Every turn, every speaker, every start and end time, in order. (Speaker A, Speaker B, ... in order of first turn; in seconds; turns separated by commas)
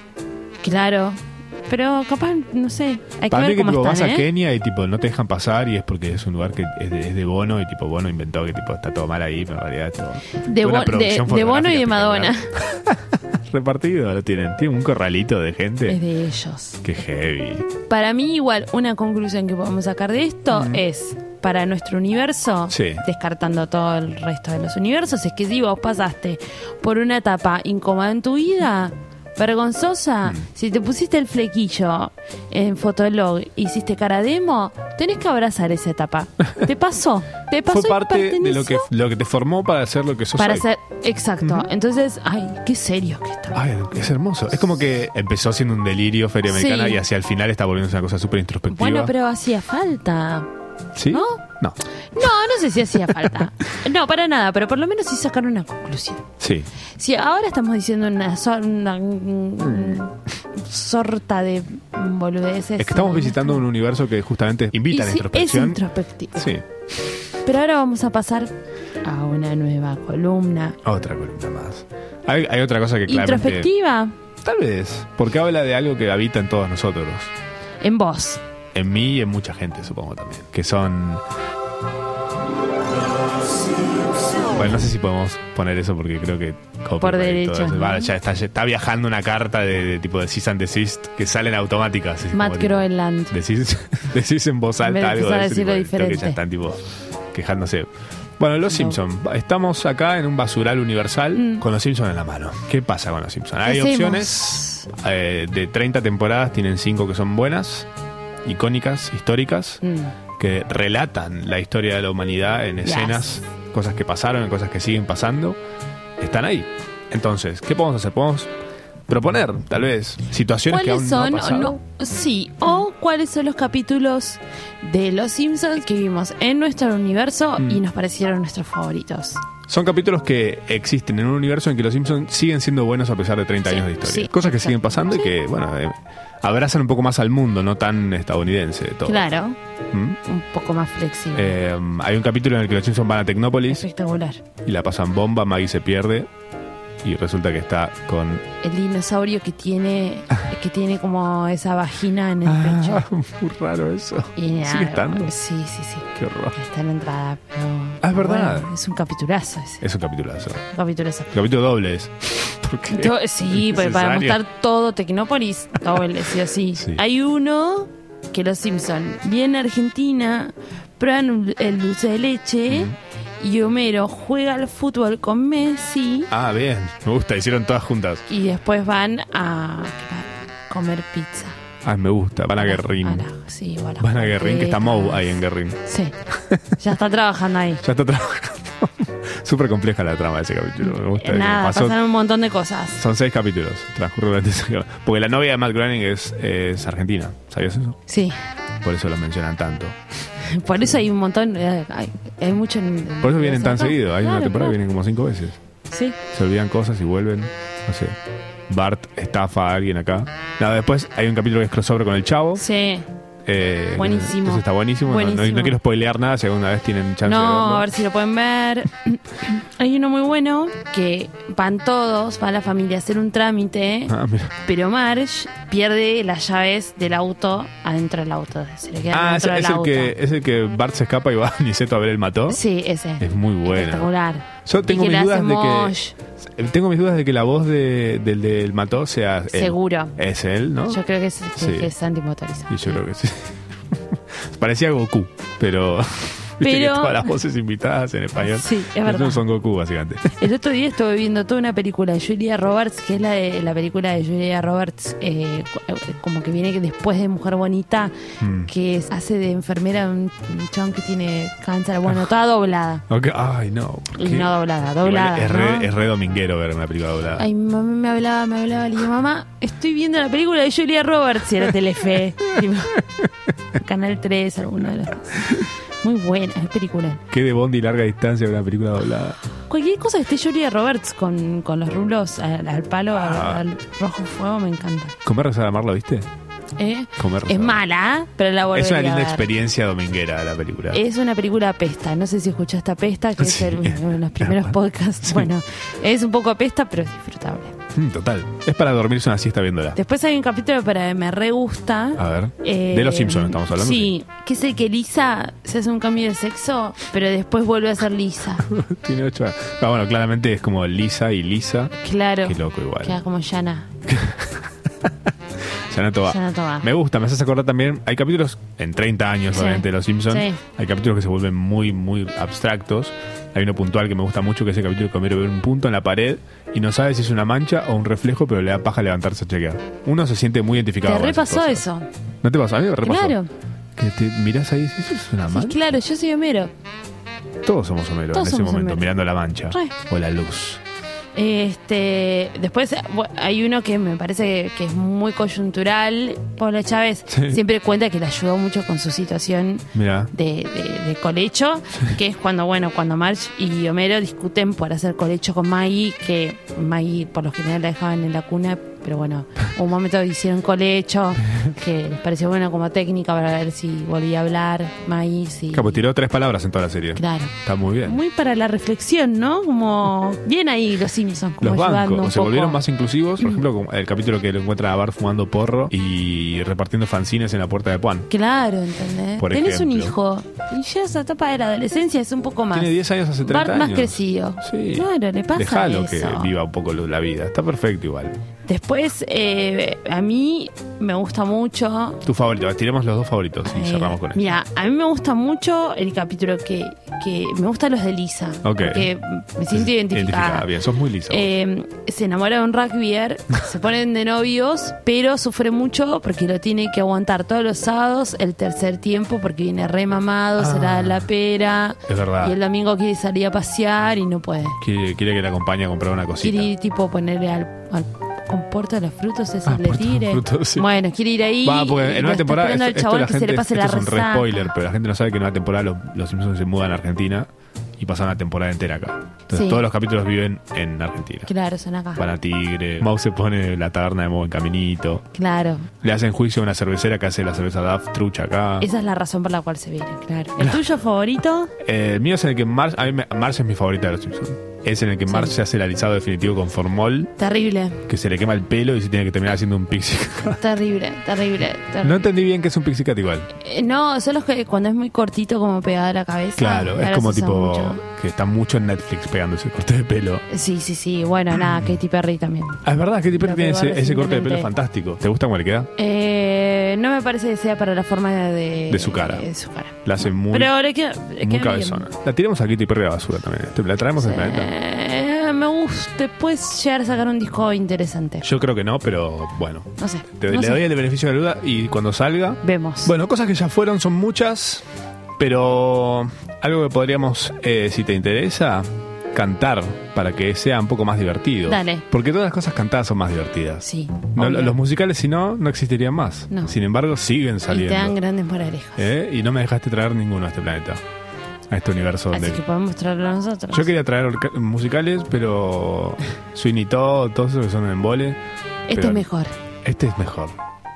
Speaker A: 0.6-4.3, Speaker B: 3.3-16.0, Speaker A: 10.4-12.5, Speaker A: 15.9-16.8, Speaker B: 16.8-17.7, Speaker A: 17.9-38.9, Speaker B: 20.5-20.8, Speaker B: 22.7-23.0, Speaker B: 37.7-40.6, Speaker A: 40.4-43.6, Speaker B: 41.4-41.7, Speaker B: 43.5-49.1, Speaker A: 46.5-47.0, Speaker A: 48.7-50.5, Speaker B: 51.0-51.8, Speaker A: 51.1-51.4, Speaker A: 52.1-56.2, Speaker B: 53.0-53.5, Speaker B: 56.4-56.7, Speaker A: 57.0-63.6, Speaker B: 59.6-60.0, Speaker B: 62.8-65.8, Speaker A: 64.9-66.5, Speaker B: 66.4-66.7, Speaker A: 67.4-70.8, Speaker B: 70.8-73.7, Speaker A: 73.1-74.2, Speaker B: 74.4-77.3, Speaker A: 77.8-78.4, Speaker B: 78.7-81.2, Speaker B: 84.5-107.9, Speaker A: 87.0-88.1, Speaker A: 92.3-93.3, Speaker A: 94.8-96.4, Speaker A: 98.7-99.0, Speaker A: 101.3-101.6, Speaker A: 103.6-104.9, Speaker B: 108.4-109.8, Speaker A: 109.8-110.2, Speaker B: 110.4-115.6, Speaker A: 112.8-113.3, Speaker B: 116.2-118.5, Speaker B: 119.1-121.8, Speaker A: 120.7-129.4, Speaker B: 129.7-139.3, Speaker A: 133.7-135.3, Speaker A: 139.1-139.6, Speaker B: 139.9-140.2, Speaker A: 140.2-141.5, Speaker B: 141.3-143.8, Speaker A: 143.7-144.4, Speaker B: 144.6-146.3, Speaker B: 147.0-148.4, Speaker A: 148.6-153.1, Speaker B: 152.4-155.3, Speaker A: 154.4-159.8, Speaker B: 156.2-156.6, Speaker B: 158.0-158.7, Speaker B: 159.8-160.6, Speaker A: 160.7-161.3, Speaker B: 161.3-164.4, Speaker A: 162.9-176.3, Speaker B: 166.8-167.0, Speaker B: 172.7-172.9, Speaker B: 176.3-178.2, Speaker A: 178.3-181.6, Speaker B: 181.8-183.2, Speaker A: 182.6-186.2, Speaker B: 184.0-185.8, Speaker B: 186.3-186.6, Speaker A: 186.8-187.8, Speaker B: 187.8-192.0, Speaker A: 190.8-193.0, Speaker B: 193.0-198.0, Speaker A: 198.1-198.4, Speaker B: 198.8-200.0, Speaker A: 200.4-204.8, Speaker B: 203.2-205.6, Speaker A: 205.9-206.2, Speaker B: 206.3-208.2, Speaker B: 208.7-212.6, Speaker A: 212.6-213.1, Speaker B: 213.4-217.9, Speaker A: 214.0-215.8, Speaker A: 217.2-230.2, Speaker B: 224.1-224.5, Speaker B: 229.1-232.6, Speaker A: 232.5-236.2, Speaker B: 233.2-234.1, Speaker B: 234.7-241.0, Speaker A: 239.5-240.2, Speaker A: 240.9-243.0, Speaker B: 241.6-241.9, Speaker B: 242.7-250.4, Speaker A: 246.6-247.3, Speaker A: 248.4-249.4, Speaker A: 250.3-263.1, Speaker B: 258.4-258.7, Speaker B: 263.1-267.5, Speaker A: 264.1-265.9, Speaker A: 267.4-273.0, Speaker A: 273.7-277.2, Speaker B: 277.3-279.4, Speaker A: 279.7-285.2, Speaker B: 283.1-283.6, Speaker B: 285.2-286.3, Speaker A: 286.8-289.5, Speaker B: 287.2-287.8, Speaker B: 288.7-291.0, Speaker A: 290.9-297.8, Speaker B: 293.4-295.5, Speaker B: 297.9-300.0, Speaker A: 299.9-308.7, Speaker B: 302.2-304.1, Speaker B: 308.6-313.2, Speaker A: 312.0-313.9, Speaker B: 314.1-315.3, Speaker B: 315.9-331.8, Speaker A: 316.2-316.9, Speaker A: 319.5-320.6, Speaker A: 331.0-332.1, Speaker B: 332.4-333.4, Speaker A: 333.0-333.5, Speaker B: 334.0-335.9, Speaker A: 335.5-336.7, Speaker B: 337.6-340.8, Speaker A: 338.3-339.1, Speaker A: 341.4-366.0, Speaker B: 347.3-347.6, Speaker B: 349.9-350.3, Speaker B: 365.7-368.2, Speaker A: 367.1-372.8, Speaker B: 371.6-378.3, Speaker A: 378.3-386.5, Speaker B: 379.4-380.2, Speaker B: 382.7-388.4, Speaker A: 388.7-392.2, Speaker B: 392.2-394.5, Speaker A: 393.6-400.7, Speaker B: 398.6-399.1, Speaker B: 399.7-401.5, Speaker A: 401.3-414.8, Speaker B: 410.6-411.3, Speaker B: 412.1-412.6, Speaker B: 414.8-416.7, Speaker A: 416.4-424.7, Speaker B: 419.7-420.9, Speaker B: 421.6-431.5, Speaker A: 429.5-429.8, Speaker A: 431.5-432.2, Speaker B: 432.2-435.3, Speaker A: 435.3-435.9, Speaker B: 436.0-438.9, Speaker A: 438.8-441.7, Speaker B: 441.8-447.3, Speaker A: 445.3-445.5, Speaker A: 447.4-448.0, Speaker B: 448.1-450.6, Speaker A: 450.6-452.2, Speaker B: 452.0-453.5, Speaker A: 453.6-458.0, Speaker B: 456.6-460.4, Speaker A: 460.5-462.8, Speaker B: 461.5-461.9, Speaker B: 462.8-465.9, Speaker A: 463.4-464.7, Speaker A: 466.0-472.1, Speaker B: 468.9-469.5, Speaker B: 470.1-470.7, Speaker B: 471.4-474.7, Speaker A: 474.2-478.5, Speaker B: 478.4-484.8, Speaker A: 480.0-480.8, Speaker A: 482.6-483.1, Speaker B: 485.4-498.2, Speaker A: 491.7-492.0, Speaker A: 493.8-494.8, Speaker A: 497.7-499.1, Speaker B: 499.0-501.0, Speaker B: 501.7-502.6, Speaker A: 502.3-503.9, Speaker B: 503.7-508.4, Speaker A: 508.9-509.5, Speaker B: 508.9-509.3, Speaker B: 509.8-510.6